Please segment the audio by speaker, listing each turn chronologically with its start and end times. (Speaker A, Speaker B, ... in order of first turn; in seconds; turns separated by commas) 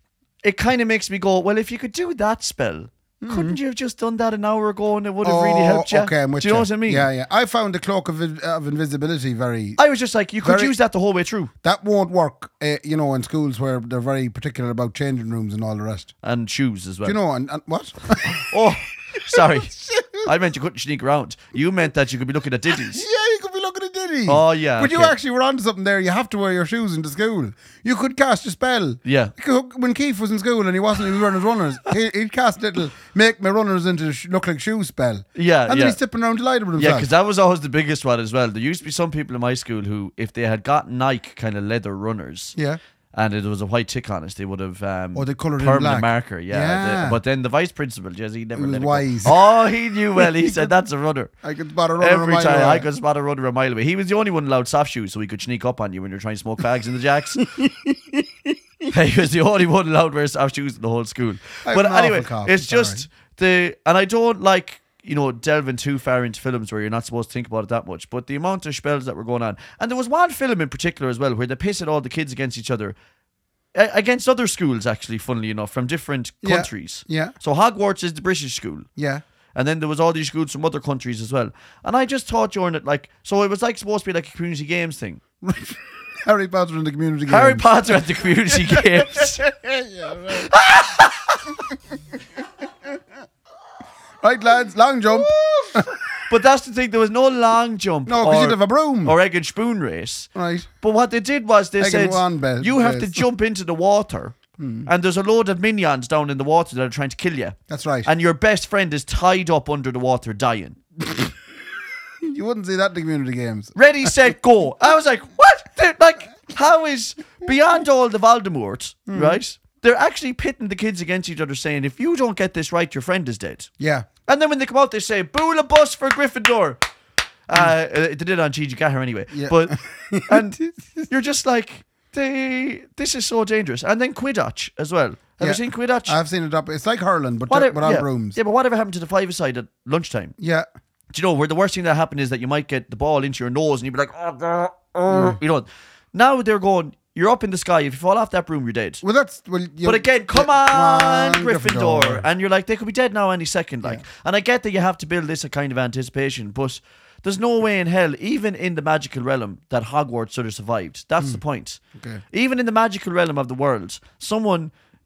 Speaker A: 0.4-7.1, Speaker B: 3.2-3.6, Speaker B: 5.2-9.8, Speaker A: 9.8-11.5, Speaker B: 10.4-10.7, Speaker B: 11.6-16.1, Speaker A: 16.2-17.2, Speaker B: 17.0-18.6, Speaker A: 18.3-23.0, Speaker B: 19.2-20.3, Speaker B: 22.8-37.1, Speaker A: 24.3-25.1, Speaker A: 29.0-29.3, Speaker A: 35.3-36.0, Speaker A: 36.8-42.5, Speaker A: 43.1-51.3, Speaker B: 45.1-47.2, Speaker B: 48.5-49.4, Speaker B: 50.2-50.7, Speaker B: 51.4-52.9, Speaker A: 52.0-57.5, Speaker B: 57.4-58.9, Speaker A: 58.9-73.0, Speaker B: 61.6-63.0, Speaker A: 73.7-78.9, Speaker B: 76.4-77.3, Speaker B: 79.0-79.2, Speaker A: 79.5-85.2, Speaker B: 85.4-88.0, Speaker A: 87.3-89.4, Speaker B: 88.5-90.5, Speaker A: 90.3-91.6, Speaker B: 94.2-95.9, Speaker A: 95.1-100.3, Speaker B: 98.0-99.1, Speaker B: 100.3-100.7, Speaker A: 100.8-110.8, Speaker B: 101.8-103.2, Speaker B: 104.6-104.9, Speaker B: 107.7-108.1, Speaker B: 111.0-111.3, Speaker B: 112.2-114.1, Speaker A: 113.8-123.7, Speaker B: 119.1-119.4, Speaker B: 123.8-124.1, Speaker A: 124.3-126.8, Speaker A: 127.5-136.2, Speaker B: 129.3-131.1, Speaker B: 135.4-138.4, Speaker A: 137.5-140.3, Speaker B: 140.4-140.7, Speaker A: 141.1-149.0, Speaker B: 145.1-145.4, Speaker B: 149.0-152.2, Speaker A: 149.8-161.8, Speaker B: 161.9-162.2, Speaker A: 162.3-164.7